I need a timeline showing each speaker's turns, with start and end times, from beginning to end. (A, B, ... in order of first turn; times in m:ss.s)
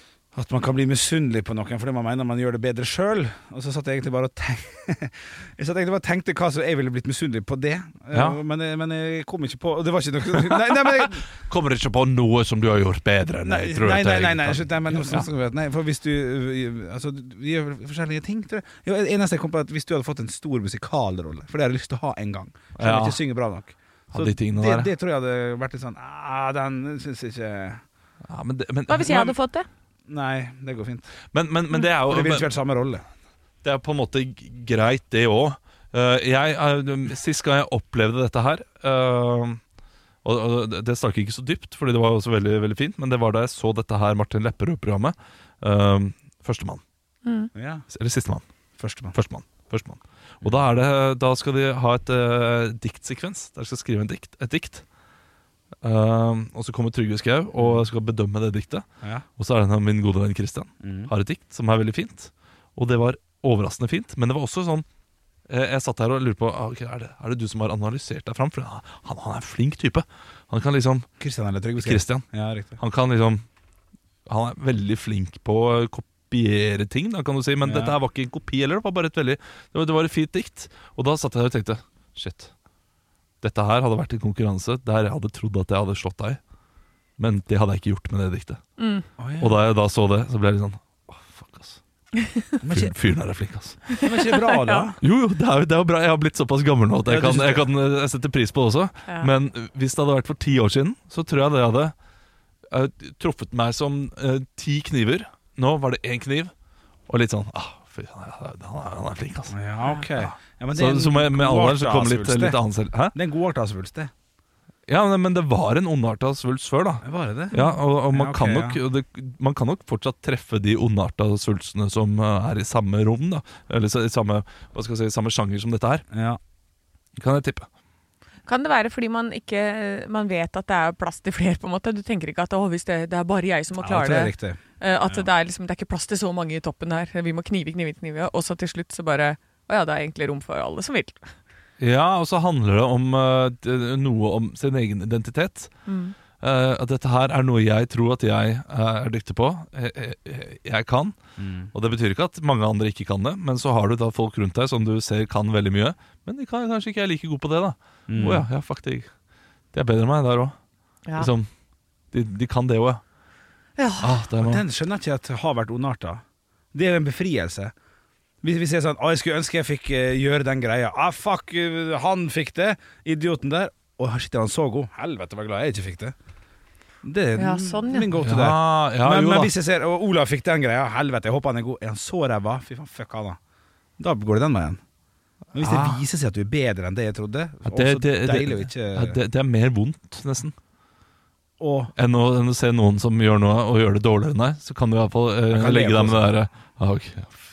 0:00.3-0:11.2 A
0:08.1-0:08.4 B
0:10.4-0:15.3 B
0:13.4-0:27.8 A
0:22.8-0:23.2 B
0:24.1-0:24.9 B
0:28.2-0:29.4 B
0:28.9-0:29.7 C
0:30.1-0:31.1 A
0:31.3-0:32.5 B
0:32.0-0:33.0 A
0:33.6-0:39.6 B
0:40.2-0:46.8 B
0:47.2-0:47.5 C
0:47.6-0:47.8 A
0:47.9-0:48.4 B
0:48.8-0:49.2 A
0:49.1-0:54.8 B
0:55.8-0:58.8 B
0:57.6-0:57.9 A
0:59.4-1:04.8 B
1:00.8-1:01.1 A
1:05.5-1:11.1 B
1:11.2-1:12.8 A
1:11.8-1:12.3 B
1:12.8-1:13.4 B
1:14.3-1:22.5 B
1:17.6-1:18.0 A
1:23.4-1:26.4 B
1:27.2-1:28.6 B
1:28.8-1:29.1 C
1:29.2-1:29.6 A
1:29.4-1:31.8 B
1:32.6-1:32.9 A
1:32.7-1:33.9 B
1:34.0-1:34.9 C
1:34.0-1:35.0 A
1:35.0-1:41.9 B
1:37.1-1:37.7 A
1:42.7-1:46.5 B
1:47.1-1:49.6 B
1:49.5-1:52.6 A
1:50.1-1:53.2 B
1:53.1-1:54.1 A
1:54.9-2:06.0 B
1:57.0-1:57.6 A
1:57.5-1:57.8 C
1:58.1-1:58.8 A
2:06.1-2:06.4 A
2:07.2-2:07.7 B
2:08.5-2:21.3 C
2:13.8-2:15.3 A
2:21.8-2:25.7 B
2:25.9-2:26.2 C
2:26.4-2:31.2 B
2:31.4-2:31.7 A
2:31.7-2:39.1 B
2:38.1-2:38.5 A
2:39.7-2:40.6 B
2:41.2-2:41.5 B
2:42.1-2:43.0 B
2:43.8-2:44.1 C
2:44.0-2:44.6 B
2:44.4-2:46.2 A
2:46.7-2:47.7 A
2:48.4-2:56.2 A
2:57.0-3:03.4 A
2:57.4-2:58.1 C
2:58.2-2:59.5 B
3:04.0-3:04.8 A
3:05.5-3:09.2 A
3:05.6-3:06.0 B
3:07.7-3:10.6 B
3:11.6-3:11.9 A
3:12.0-3:17.3 B
3:15.5-3:16.4 A